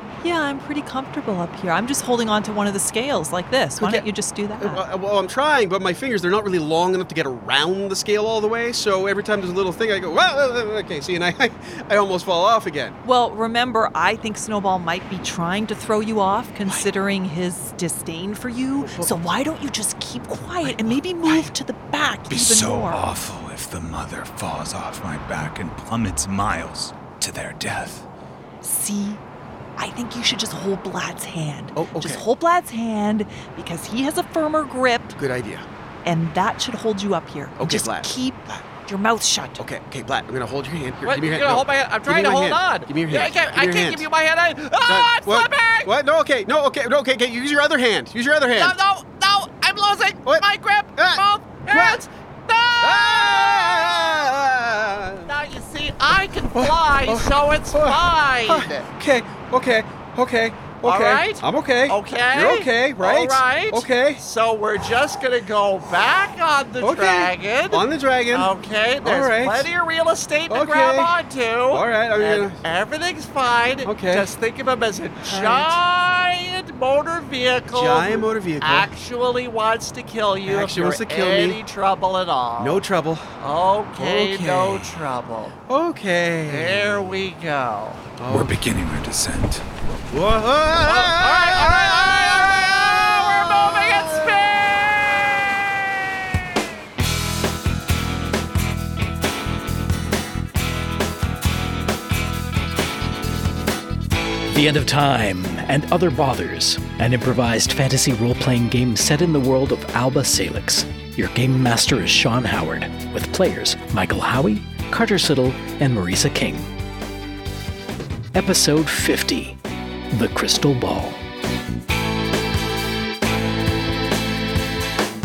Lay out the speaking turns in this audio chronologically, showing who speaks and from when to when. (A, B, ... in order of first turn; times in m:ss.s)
0:00.2-0:04.8 A
0:03.8-0:04.1 B
0:04.6-0:13.0 B
0:13.0-0:23.0 A
0:20.6-0:21.5 C
0:22.3-0:28.0 C
0:28.6-0:29.2 A
0:29.8-0:35.2 A
0:31.8-0:32.2 B
0:35.2-0:35.7 B
0:36.0-0:39.6 A
0:37.6-0:38.6 B
0:39.6-0:44.1 B
0:41.0-0:45.9 D
0:44.8-0:48.8 B
0:48.6-0:54.2 D
0:50.2-0:52.0 B
0:52.8-0:55.3 B
0:55.3-0:58.9 D
0:56.5-1:04.2 B
1:00.8-1:22.8 D
1:06.8-1:08.5 B
1:09.0-1:09.7 B
1:10.5-1:11.1 B
1:11.7-1:12.6 B
1:13.8-1:14.3 B
1:15.2-1:15.8 B
1:17.7-1:18.9 B
1:20.4-1:21.6 B
1:22.6-1:23.2 B
1:23.4-1:25.6 D
1:24.0-1:24.4 B
1:24.4-1:24.8 C
1:25.7-1:27.0 B
1:26.5-1:28.1 D
1:28.2-1:28.5 B
1:28.3-1:29.6 C
1:30.1-1:34.3 B
1:30.8-1:35.8 D
1:44.5-1:56.7 E
1:58.3-1:59.6 E
2:00.1-2:01.2 E